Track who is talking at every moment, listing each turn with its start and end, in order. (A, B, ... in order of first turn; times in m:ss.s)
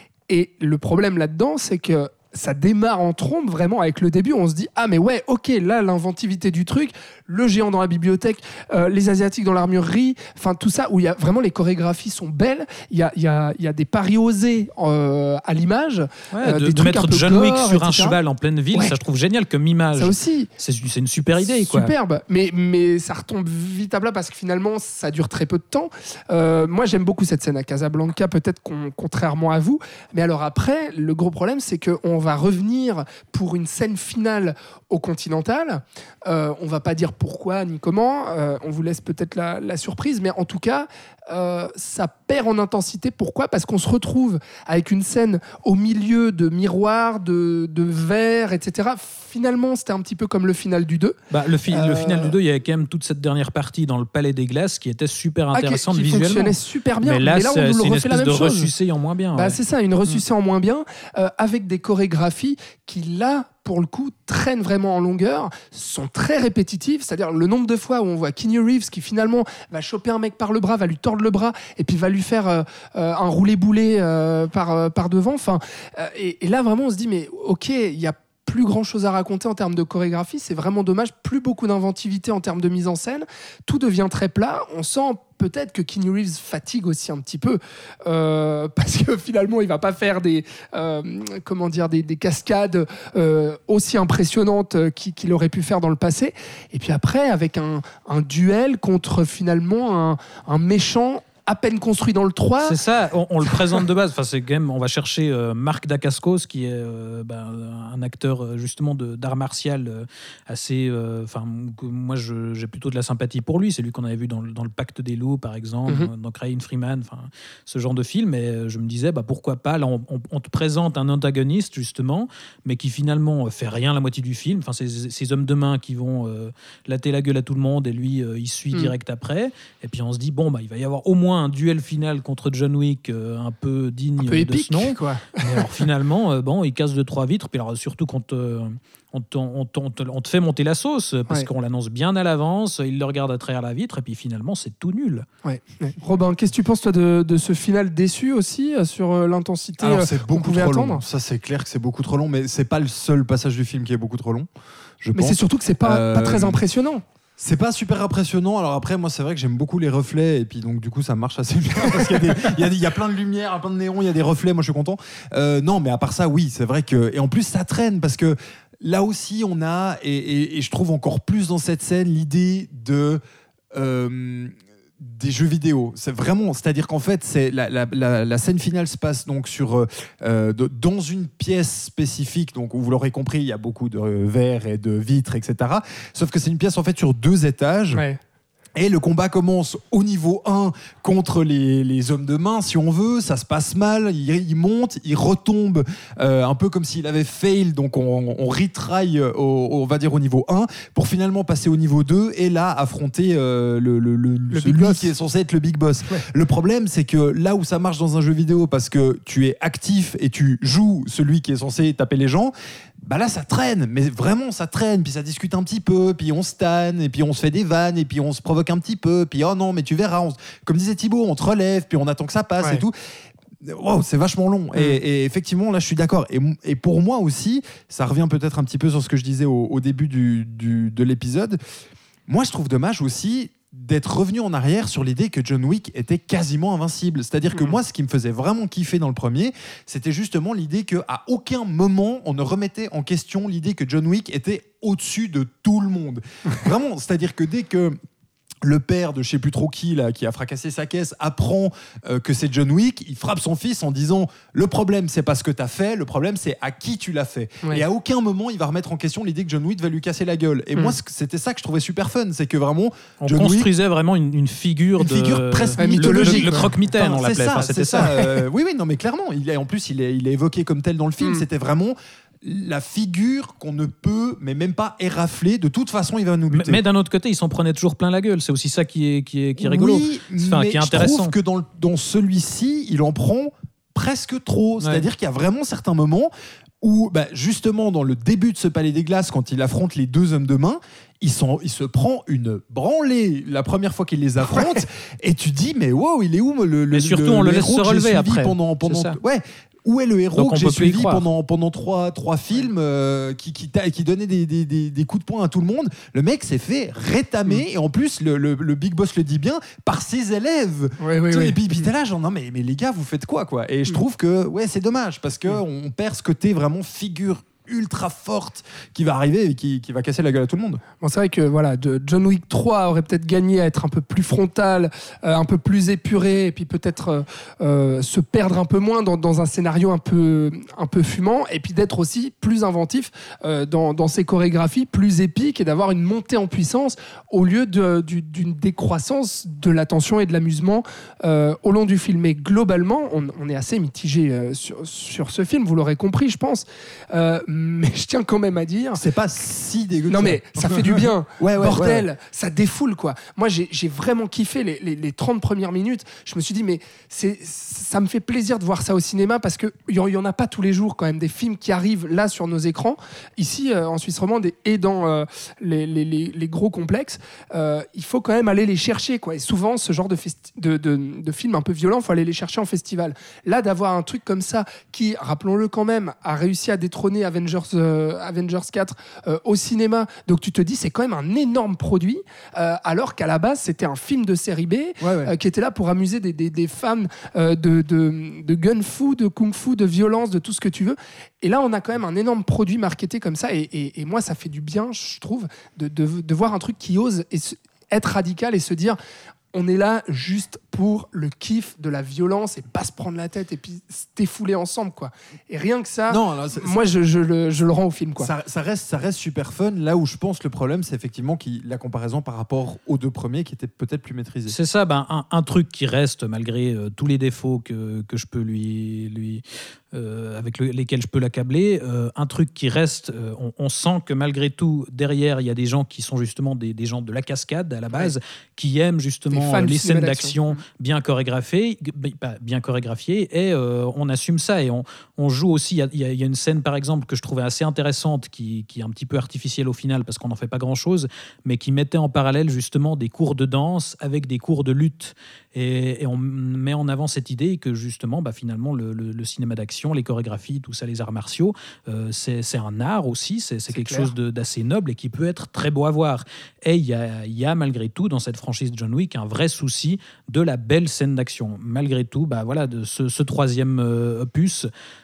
0:00.3-0:18.2 A
0:16.3-0:21.9 B
0:20.0-0:20.5 A
0:21.4-0:51.2 A
0:51.3-1:00.2 B
0:51.7-0:52.3 A
0:55.5-0:58.7 A
0:59.4-1:42.8 A
1:42.6-2:25.3 B
2:14.2-2:15.6 A
2:25.4-2:31.0 A
2:29.8-2:34.5 C
2:35.0-2:36.6 C
2:35.1-2:37.0 A
2:37.4-2:53.2 C
2:41.9-2:42.5 A
2:53.7-3:08.0 C
3:07.9-3:08.2 A
3:08.8-3:43.0 C
3:24.5-3:25.1 A
3:43.6-3:51.6 C
3:52.3-4:08.0 C
4:08.6-4:23.7 C
4:23.2-4:28.1 B
4:25.0-4:36.8 C
4:25.8-4:26.7 A
4:27.9-4:28.3 A
4:36.5-4:41.3 B
4:39.6-5:20.8 C
4:44.8-4:45.1 B
4:54.5-4:54.8 A
4:56.9-4:59.2 B
5:00.4-5:01.2 B
5:11.0-5:11.9 A
5:21.0-5:49.0 A
5:49.0-5:52.1 C
5:50.1-6:39.0 A
6:25.0-6:25.3 C
6:39.5-6:48.3 A
6:46.1-6:46.8 C
6:48.2-6:54.6 C
6:54.5-7:44.7 B
7:09.3-7:10.6 A
7:33.7-7:34.1 A